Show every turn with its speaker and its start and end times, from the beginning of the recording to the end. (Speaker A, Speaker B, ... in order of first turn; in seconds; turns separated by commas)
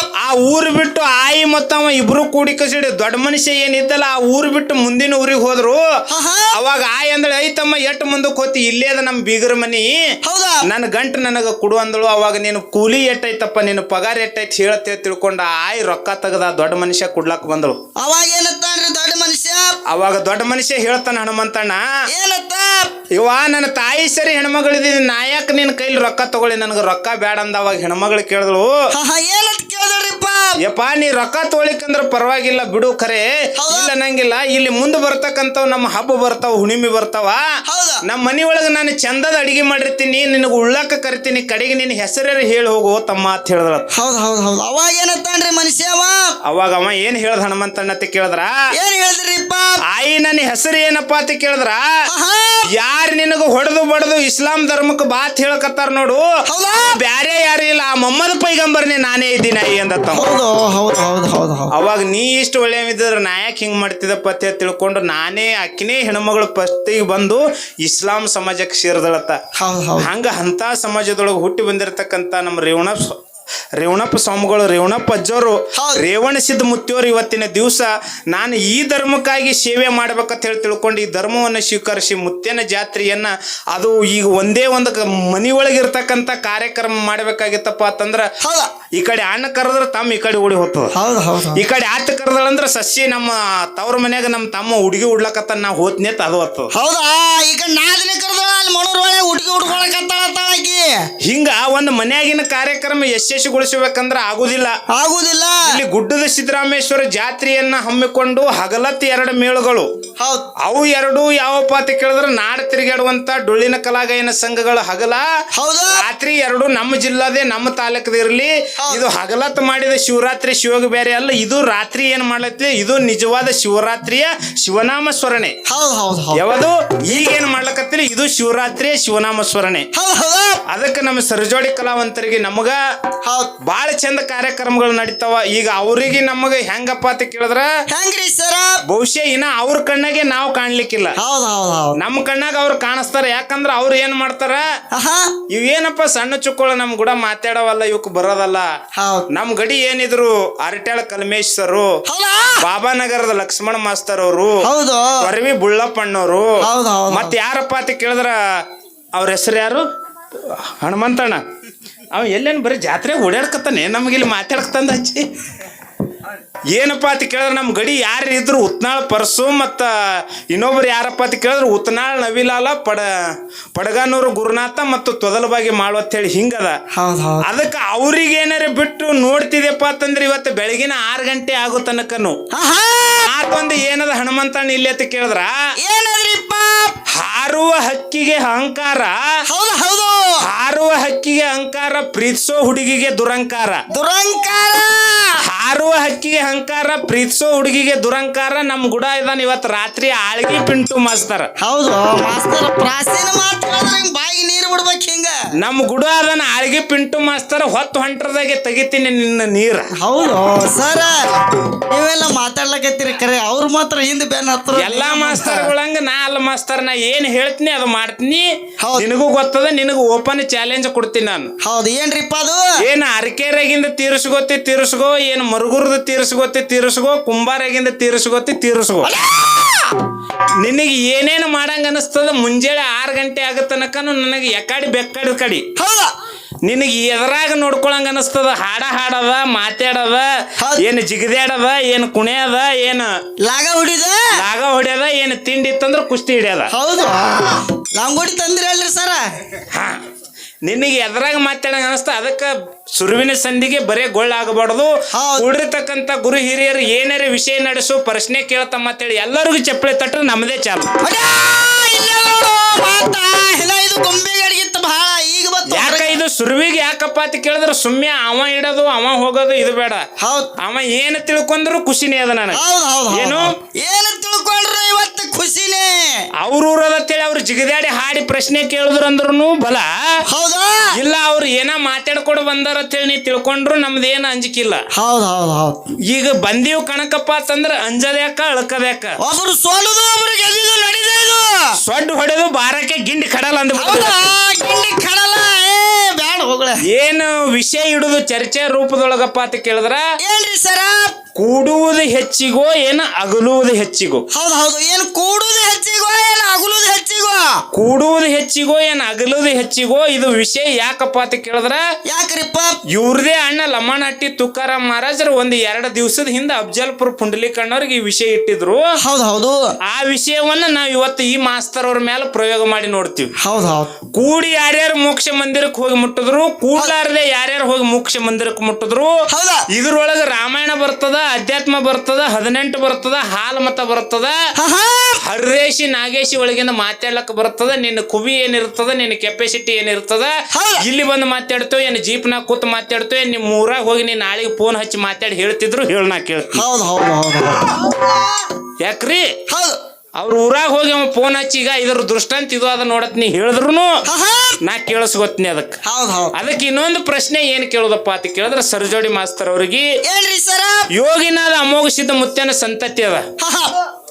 Speaker A: 0.2-5.8, Speaker B: 6.1-6.5, Speaker A: 6.5-9.9, Speaker B: 10.2-10.6, Speaker A: 10.7-17.8, Speaker B: 18.0-19.7, Speaker A: 19.9-21.8, Speaker B: 22.1-22.9, Speaker A: 23.1-28.7, Speaker B: 28.9-30.5, Speaker A: 30.6-37.4, Speaker B: 33.6-33.9, Speaker B: 37.7-38.0, Speaker A: 38.0-43.8, Speaker B: 43.9-46.2, Speaker A: 46.4-48.5, Speaker B: 48.7-49.8, Speaker A: 49.9-51.8, Speaker B: 52.1-52.6, Speaker A: 52.7-56.2, Speaker B: 56.5-56.9, Speaker A: 56.9-60.3, Speaker B: 60.1-61.7, Speaker A: 61.7-69.4, Speaker B: 69.6-70.1, Speaker A: 70.0-73.1, Speaker A: 73.8-88.3, Speaker B: 75.7-76.0, Speaker B: 88.4-88.7, Speaker A: 88.9-90.9, Speaker B: 90.9-91.6, Speaker A: 91.5-96.7, Speaker B: 96.7-101.1, Speaker A: 101.2-104.7, Speaker B: 104.9-105.8, Speaker A: 105.6-109.9, Speaker B: 110.2-110.5, Speaker A: 110.6-115.2, Speaker B: 115.5-116.0, Speaker A: 116.0-125.6, Speaker B: 118.8-119.0, Speaker B: 125.7-126.4, Speaker A: 126.3-129.9, Speaker B: 129.9-130.6, Speaker A: 130.7-132.8, Speaker B: 133.2-133.5, Speaker A: 133.6-137.7, Speaker B: 137.9-138.8, Speaker A: 138.8-141.2, Speaker B: 141.2-142.0, Speaker A: 142.0-144.6, Speaker B: 144.9-145.3, Speaker A: 145.5-148.7, Speaker B: 149.0-149.3, Speaker A: 149.3-151.9, Speaker B: 152.1-152.6, Speaker A: 152.6-154.6, Speaker B: 154.6-155.3, Speaker A: 155.2-156.5, Speaker B: 156.6-157.3, Speaker A: 157.1-158.3, Speaker A: 159.1-159.8, Speaker A: 160.5-161.4, Speaker A: 162.1-165.2, Speaker A: 166.7-169.9, Speaker A: 170.5-173.1, Speaker A: 173.7-176.8, Speaker B: 176.9-177.5, Speaker A: 177.4-182.4, Speaker B: 182.5-183.3, Speaker A: 183.2-185.5, Speaker B: 185.8-186.9, Speaker A: 187.1-189.2, Speaker B: 189.5-190.4, Speaker A: 190.4-193.8, Speaker B: 193.9-195.4, Speaker A: 195.4-201.5, Speaker B: 201.6-205.3, Speaker A: 205.6-209.8, Speaker B: 210.0-211.2, Speaker B: 211.9-215.7, Speaker A: 214.7-221.5, Speaker B: 218.8-219.1, Speaker B: 221.6-222.6, Speaker A: 222.8-229.1, Speaker B: 229.0-229.9, Speaker A: 230.6-235.7, Speaker B: 235.8-236.1, Speaker A: 236.6-240.2, Speaker A: 240.8-243.1, Speaker B: 243.4-244.3, Speaker A: 244.4-246.7, Speaker B: 246.7-249.2, Speaker A: 249.7-250.0, Speaker A: 250.6-260.9, Speaker B: 255.1-255.4, Speaker B: 261.0-266.1, Speaker A: 265.7-270.1, Speaker B: 270.2-270.5, Speaker A: 270.6-273.5, Speaker B: 272.5-276.2, Speaker A: 276.4-279.9, Speaker B: 280.3-280.9, Speaker A: 280.9-284.8, Speaker B: 284.9-285.8, Speaker A: 286.1-289.2, Speaker B: 289.2-291.7, Speaker A: 291.8-294.2, Speaker B: 293.8-296.8, Speaker A: 296.9-300.0, Speaker B: 300.2-301.1, Speaker A: 301.3-304.2, Speaker B: 304.3-307.6, Speaker A: 307.7-311.8, Speaker B: 312.1-312.8, Speaker A: 312.9-318.9, Speaker B: 319.0-319.6, Speaker A: 319.9-323.3, Speaker B: 323.4-323.9, Speaker A: 324.1-329.1, Speaker B: 329.3-329.6, Speaker A: 329.7-334.3, Speaker B: 334.6-335.2, Speaker A: 335.2-346.6, Speaker B: 340.5-340.9, Speaker B: 346.5-348.2, Speaker A: 348.8-349.2, Speaker B: 349.5-349.8, Speaker A: 350.2-354.0, Speaker B: 354.1-354.6, Speaker A: 354.6-355.8, Speaker B: 355.8-356.3, Speaker A: 356.3-359.9, Speaker B: 360.0-360.8, Speaker A: 360.9-363.2, Speaker B: 363.4-363.7